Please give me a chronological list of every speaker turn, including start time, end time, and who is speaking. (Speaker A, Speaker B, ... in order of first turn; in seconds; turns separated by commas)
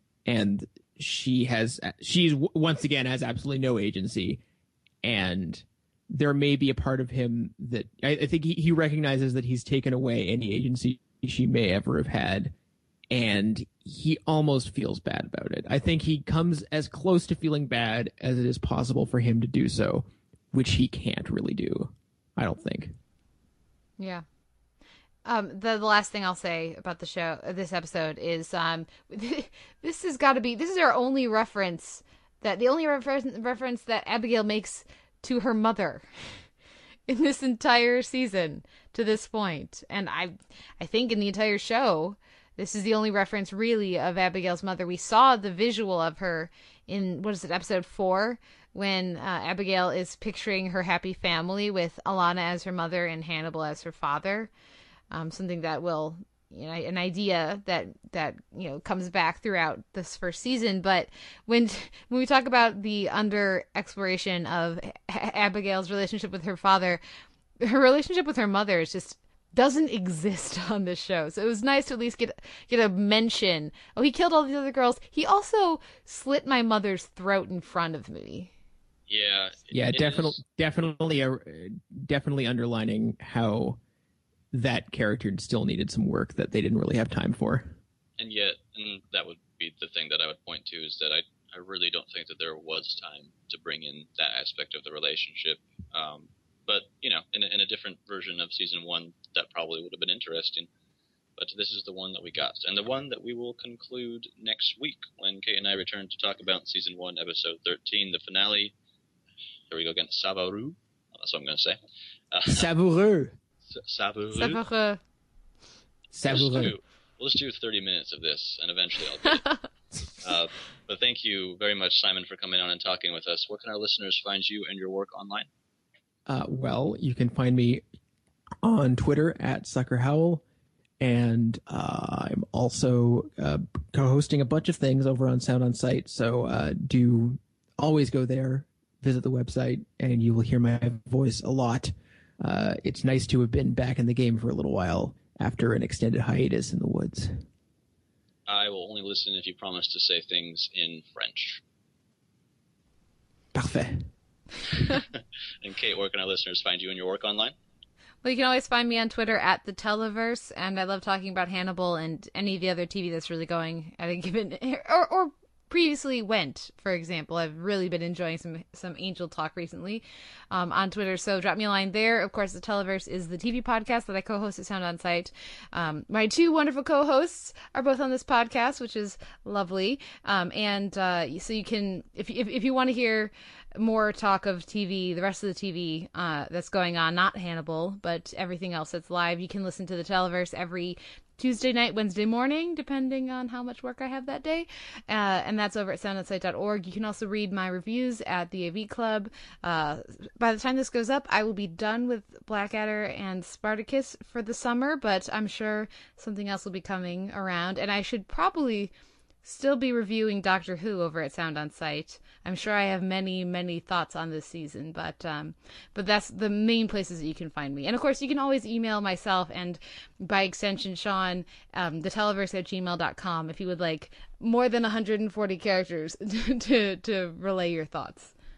Speaker A: 0.3-4.4, Speaker A: 5.0-12.5, Speaker A: 13.1-22.9, Speaker B: 24.0-24.2, Speaker B: 25.2-36.4, Speaker B: 37.1-54.5, Speaker B: 55.1-67.0, Speaker B: 67.6-78.5, Speaker C: 79.1-80.4, Speaker A: 79.7-83.8, Speaker A: 84.5-87.7, Speaker C: 88.2-100.7, Speaker C: 101.4-108.7, Speaker C: 109.7-111.8, Speaker C: 112.3-112.7, Speaker A: 112.5-113.3, Speaker C: 113.7-114.6, Speaker B: 114.3-115.0, Speaker A: 116.1-116.7, Speaker C: 116.3-119.5, Speaker C: 120.2-125.5, Speaker A: 126.3-127.8, Speaker A: 128.6-130.4, Speaker A: 131.0-147.4, Speaker C: 148.5-151.6, Speaker A: 153.5-154.1, Speaker C: 154.8-157.5, Speaker B: 158.2-208.9, Speaker B: 209.4-228.3